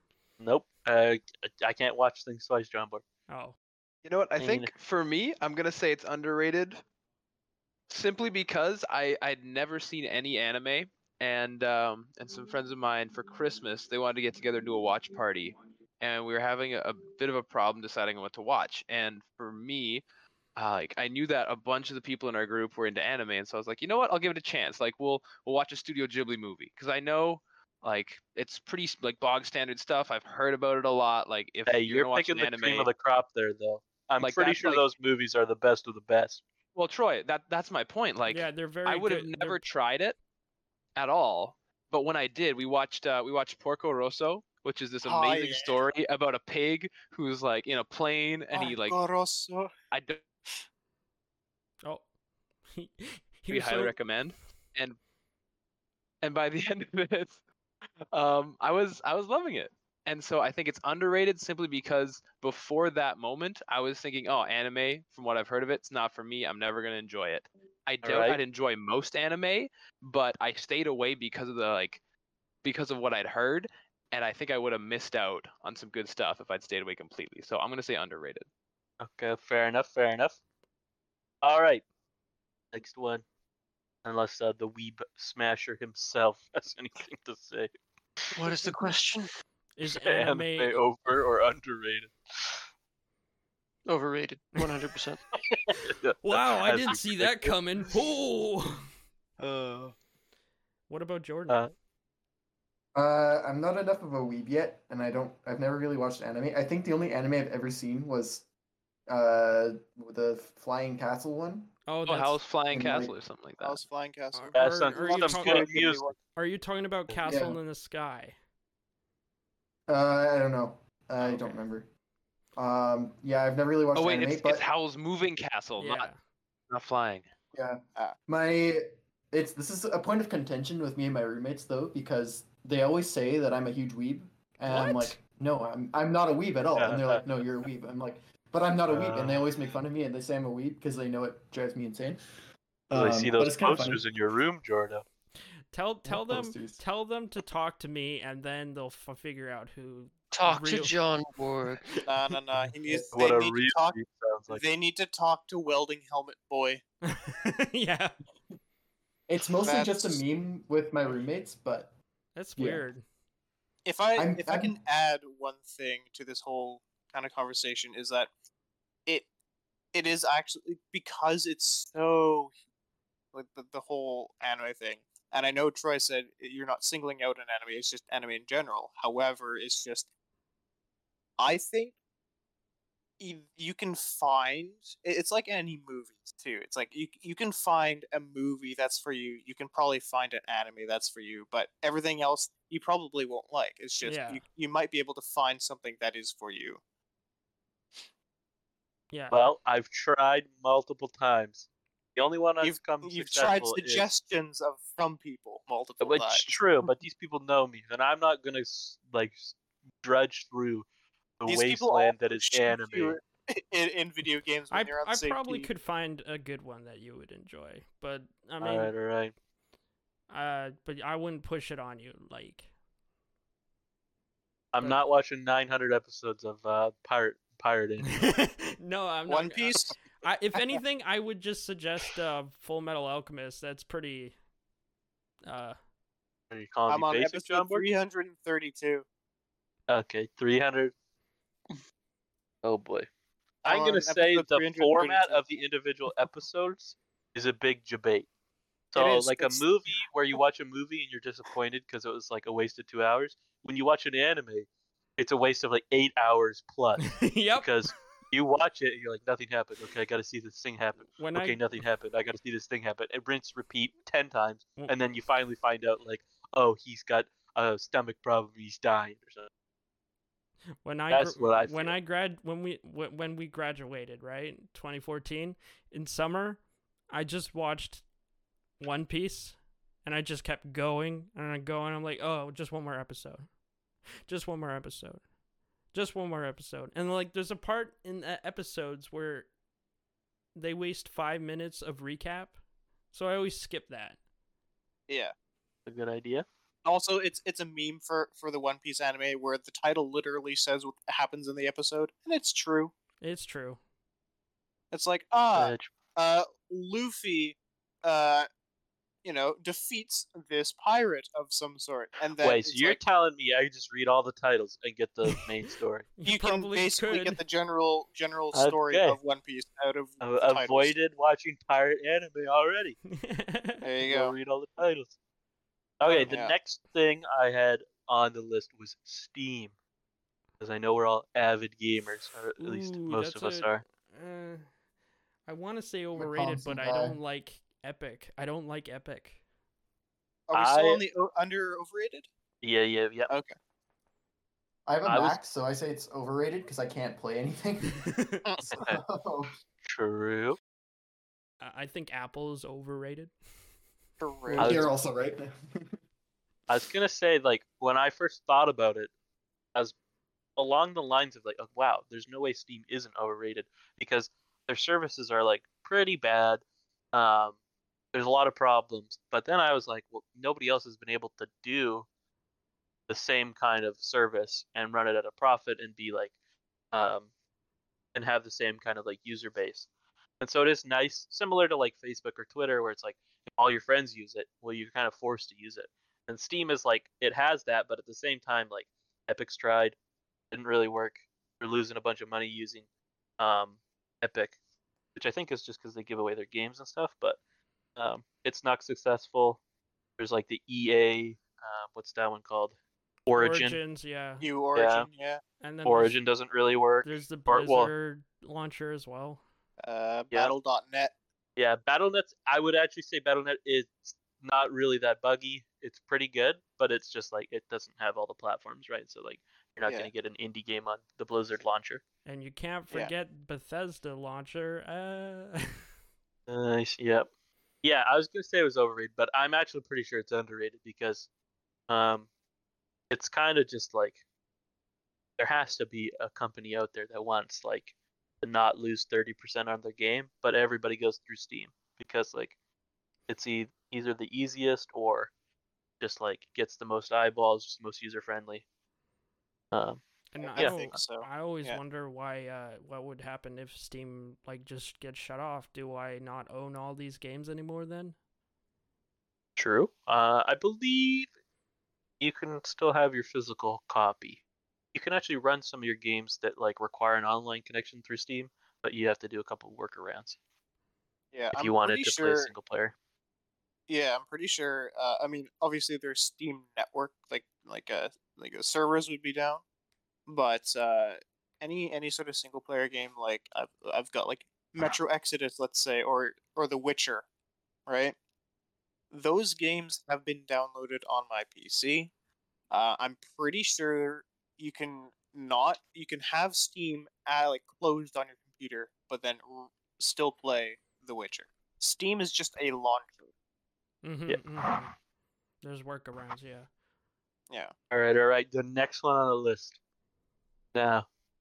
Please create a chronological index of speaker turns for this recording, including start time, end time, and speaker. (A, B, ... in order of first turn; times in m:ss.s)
0:00.4-0:03.0 A
0:03.3-0:03.6 B
0:04.0-0:06.8 C
0:04.4-0:04.7 A
0:07.9-0:20.0 C
0:20.6-0:32.9 C
0:31.7-0:36.4 A
0:34.2-0:34.8 C
0:36.8-0:40.2 C
0:38.3-0:39.6 B
0:41.0-0:49.0 C
0:45.0-0:45.8 D
0:48.5-0:49.7 D
0:49.9-0:50.2 C
0:52.7-0:54.0 B
0:53.5-0:55.0 C
0:56.2-0:57.4 C
0:58.1-1:12.0 C
1:08.0-1:08.4 A
1:12.6-1:18.5 C
1:19.0-1:20.4 A
1:21.4-1:21.8 A
1:22.7-1:23.2 A
1:24.0-1:27.7 A
1:28.4-1:29.3 E
1:29.8-1:30.8 B
1:29.9-1:32.6 A
1:33.9-1:35.2 E
1:35.3-1:37.6 A
1:36.2-1:38.9 B
1:39.4-1:39.9 C
1:40.9-1:41.6 B
1:43.0-1:48.5 F
1:49.1-1:51.7 F
1:51.9-1:52.4 B
1:52.1-1:53.8 C
1:52.7-1:53.1 F
1:53.6-1:56.2 D
1:54.3-1:55.7 B
1:54.5-1:56.2 A
1:56.4-1:58.4 B
1:57.2-1:57.6 F
1:59.9-2:01.9 F
2:02.6-2:04.7 F
2:04.0-2:06.1 C
2:05.8-2:06.2 B
2:06.7-2:07.3 C
2:07.5-2:22.2 F
2:14.7-2:15.1 B
2:16.8-2:17.2 A
2:18.9-2:19.4 A
2:22.9-2:24.0 F
2:22.9-2:25.0 A
2:25.7-2:30.9 B
2:26.0-2:26.8 F
2:30.3-2:32.0 E
2:32.1-2:34.0 D
2:32.8-2:33.1 F
2:33.1-2:34.6 A
2:34.5-2:36.8 D
2:37.0-2:38.1 B
2:39.3-2:41.9 F
2:39.6-2:40.2 D
2:42.4-2:43.0 B
2:42.6-2:42.9 F
2:43.8-2:48.3 D
2:44.2-2:44.8 F
2:49.9-2:52.5 D
2:53.3-3:00.1 D
3:01.4-3:01.9 D
3:03.2-3:16.8 D
3:14.0-3:14.4 B
3:19.1-3:19.5 B
3:19.3-3:24.1 A
3:22.6-3:26.5 D
3:26.0-3:30.9 A
3:31.4-3:33.2 A
3:31.5-3:35.7 D
3:34.7-3:38.9 B
3:38.6-3:39.3 A
3:40.3-3:42.7 B
3:44.7-3:48.4 A
3:48.1-3:54.4 B
3:49.3-3:50.0 D
3:55.5-3:55.8 B
3:56.5-3:57.8 A
3:56.9-3:59.0 D
3:59.9-4:00.9 A
4:02.6-4:03.1 A
4:03.6-4:08.3 A
4:03.6-4:05.4 D
4:08.9-4:29.5 A
4:09.0-4:09.7 D
4:17.0-4:17.7 B
4:21.2-4:21.6 B
4:30.8-4:36.6 B
4:31.1-4:32.0 A
4:37.1-4:38.0 B
4:38.8-4:43.5 B
4:44.3-4:45.2 B
4:45.9-4:49.5 B
4:50.6-4:52.6 B
4:53.1-4:54.2 B
4:55.9-4:56.4 A
4:56.8-5:02.9 D
5:03.2-5:03.8 B
5:04.9-5:08.5 D
5:05.5-5:05.9 A
5:09.2-5:13.0 D
5:12.4-5:16.1 A
5:16.2-5:17.4 B
5:16.2-5:20.9 D
5:18.5-5:19.2 A
5:20.2-5:23.0 A
5:23.1-5:23.9 B
5:23.8-5:24.4 D
5:24.0-5:25.1 A
5:26.0-5:29.7 A
5:26.1-5:26.6 D
5:30.6-5:33.8 A
5:32.6-5:34.7 B
5:35.5-5:39.4 B
5:36.2-5:37.2 F
5:40.5-5:42.3 D
5:40.5-5:41.0 A
5:42.6-5:43.3 A
5:43.3-5:43.6 D
5:44.9-5:49.5 F
5:45.1-5:45.4 A
5:48.0-5:48.4 B
5:49.8-5:50.6 A
5:51.6-5:53.3 B
5:54.2-5:54.9 D
5:54.6-5:56.0 F
5:54.6-5:54.9 A
5:56.7-5:59.1 A
6:00.6-6:07.6 A
6:08.1-6:12.1 A
6:13.1-6:16.3 A
6:16.9-6:17.3 A
6:18.2-6:19.9 A
6:20.4-6:30.0 A
6:30.5-6:32.9 A
6:33.4-6:34.6 A
6:35.2-6:37.4 A
6:38.0-6:39.6 A
6:40.2-6:42.8 A
6:43.3-6:43.8 A
6:43.3-6:44.4 B
6:44.4-6:45.4 D
6:44.8-6:45.1 A
6:45.6-6:46.2 B
6:45.8-6:47.9 A
6:47.0-6:49.4 B
6:49.8-6:51.1 D
6:51.6-7:02.0 A
7:02.3-7:05.7 B
7:06.5-7:07.3 A
7:07.8-7:11.3 A
7:11.9-7:12.3 A
7:13.1-7:14.2 A
7:15.4-7:22.6 A
7:23.3-7:25.3 A
7:26.0-7:28.6 A
7:29.7-7:30.0 A
7:30.3-7:38.2 B
7:30.4-7:31.8 D
7:30.6-7:30.9 A
7:39.6-7:41.3 A
7:42.2-7:44.4 A
7:44.9-7:50.4 A
7:51.3-7:52.5 D
7:51.5-7:53.0 A
7:53.9-7:59.6 D
8:00.3-8:07.2 D
8:07.9-8:08.2 D
8:09.1-8:12.1 D
8:12.7-8:23.3 D
8:24.0-8:24.9 B
8:25.6-8:26.7 B
8:27.9-8:29.8 A
8:30.7-8:31.1 A